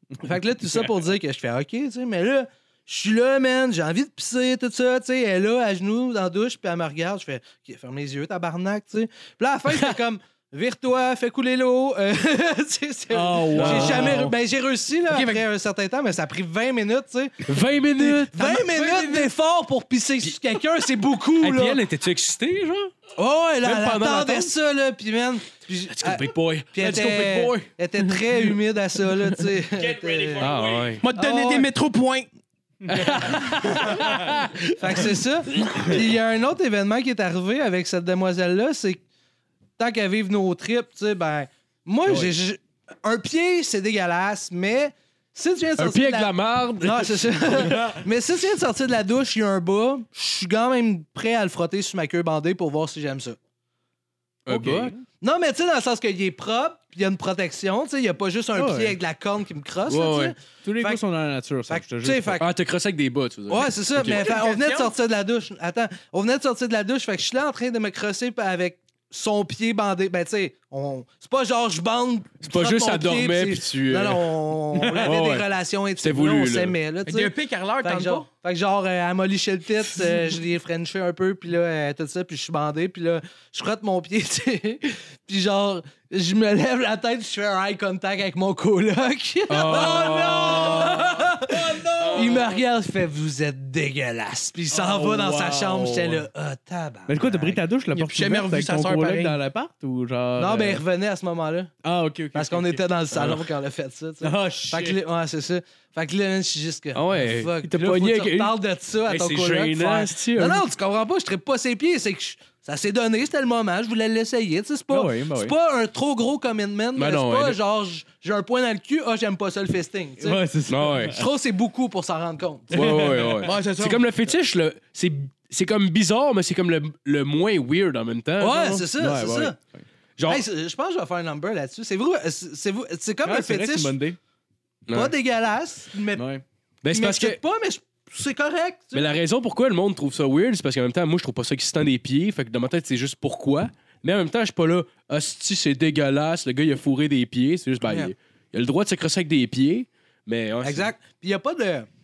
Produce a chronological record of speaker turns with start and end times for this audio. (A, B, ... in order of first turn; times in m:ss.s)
0:00.2-0:21.8 A
0:13.1-0:14.3 B
0:13.5-0:14.3 C
0:15.1-0:15.4 D
0:17.4-0:19.3 C
0:21.4-0:22.9 C
0:23.2-0:31.7 A
0:23.6-0:24.5 C
0:25.9-0:27.7 C
0:30.0-0:31.0 C
0:31.0-0:32.3 D
0:32.8-0:33.4 B
0:32.9-0:35.9 C
0:33.2-0:34.0 A
0:34.7-0:39.0 A
0:39.8-0:53.4 A
0:45.8-0:48.0 C
0:54.4-0:54.9 C
0:54.5-0:55.0 B
0:55.2-1:01.0 A
0:58.5-0:59.0 B
0:59.9-1:00.3 C
1:00.6-1:02.4 B
1:01.7-1:02.4 A
1:02.4-1:04.3 C
1:03.5-1:37.6 A
1:04.0-1:04.9 D
1:12.4-1:14.4 C
1:14.9-1:15.4 C
1:16.0-1:16.8 C
1:17.0-1:18.3 D
1:29.5-1:31.2 C
1:29.7-1:32.6 B
1:32.1-1:32.4 C
1:34.7-1:36.2 B
1:37.1-1:40.8 B
1:37.9-1:39.4 D
1:40.4-1:41.7 A
1:41.8-1:43.4 B
1:42.3-2:00.4 A
1:44.2-1:45.0 B
1:46.9-1:50.6 C
1:54.9-1:55.5 B
1:57.0-1:57.6 C
2:00.2-2:01.2 B
2:00.7-2:01.2 C
2:01.1-2:03.0 A
2:02.7-2:03.5 B
2:02.7-2:08.9 C
2:03.4-2:04.0 D
2:08.4-2:09.6 A
2:08.9-2:09.8 B
2:10.2-2:10.4 C
2:10.2-2:13.9 A
2:13.2-2:14.2 B
2:14.9-2:15.1 C
2:14.9-2:16.3 A
2:16.1-2:16.4 B
2:16.8-2:17.4 C
2:16.9-2:19.1 A
2:18.9-2:30.9 C
2:27.8-2:28.1 A
2:30.6-2:31.9 A